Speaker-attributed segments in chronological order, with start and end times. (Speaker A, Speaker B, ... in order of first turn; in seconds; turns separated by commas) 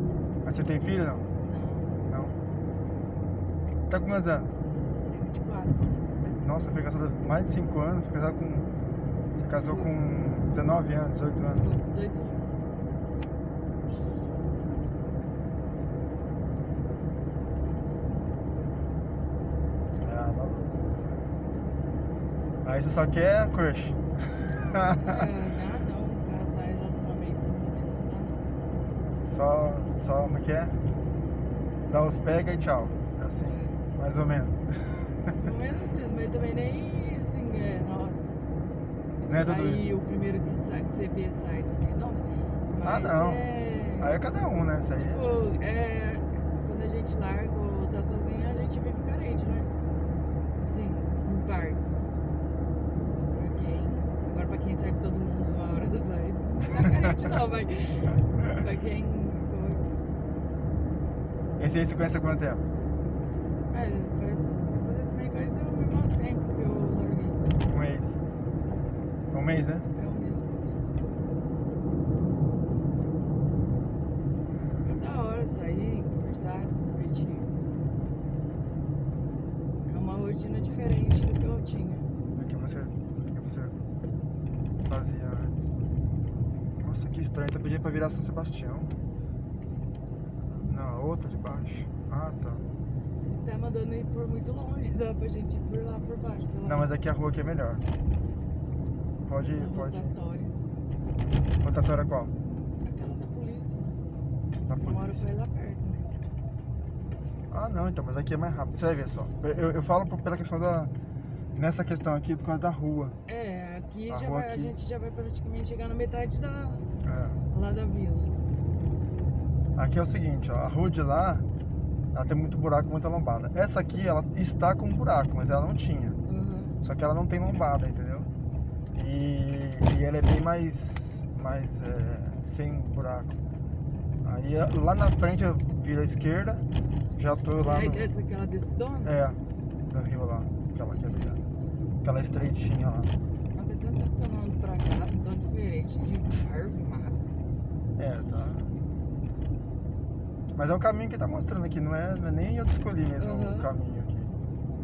Speaker A: 0.4-1.3, Speaker B: 1.4-1.9, Speaker A: 2.1-2.4, Speaker A: 3.9-4.5, Speaker B: 5.1-5.9, Speaker A: 6.4-8.7, Speaker A: 9.3-11.7, Speaker B: 9.7-10.0, Speaker B: 11.5-12.5, Speaker A: 20.0-20.8, Speaker A: 22.6-25.3, Speaker B: 24.9-28.4, Speaker A: 29.2-30.8, Speaker A: 31.9-35.5, Speaker B: 33.4-33.8, Speaker B: 35.4-38.4, Speaker B: 39.2-44.2, Speaker A: 39.3-39.9, Speaker A: 42.8-45.3, Speaker B: 45.0-49.7, Speaker B: 50.6-52.0, Speaker B: 53.3-60.0, Speaker A: 56.8-57.2, Speaker A: 61.6-62.6, Speaker B: 63.7-67.4, Speaker A: 67.7-68.2, Speaker A: 69.3-69.8, Speaker B: 69.9-70.8, Speaker B: 74.8-77.5, Speaker B: 79.9-82.1, Speaker A: 82.3-83.8, Speaker A: 84.8-85.8, Speaker A: 86.8-88.9, Speaker A: 90.5-92.7, Speaker B: 93.2-96.9, Speaker A: 96.6-97.8, Speaker A: 99.2-100.1, Speaker B: 99.5-100.5, Speaker A: 101.6-102.3, Speaker B: 102.8-104.0, Speaker A: 104.7-105.3, Speaker B: 104.8-106.1, Speaker A: 107.5-110.9, Speaker A: 111.5-113.2, Speaker B: 113.3-116.8, Speaker A: 114.1-114.7, Speaker A: 117.0-117.4, Speaker B: 117.5-118.3, Speaker A: 119.8-121.5, Speaker A: 122.1-126.2, Speaker B: 126.2-126.7, Speaker A: 126.8-128.3, Speaker A: 128.9-133.4, Speaker A: 134.2-138.1, Speaker B: 137.5-139.2, Speaker A: 139.0-139.4, Speaker A: 139.9-141.4, Speaker B: 140.9-141.6, Speaker A: 142.0-143.1, Speaker B: 143.5-147.2, Speaker A: 148.0-148.9, Speaker A: 150.5-154.4, Speaker B: 153.2-153.7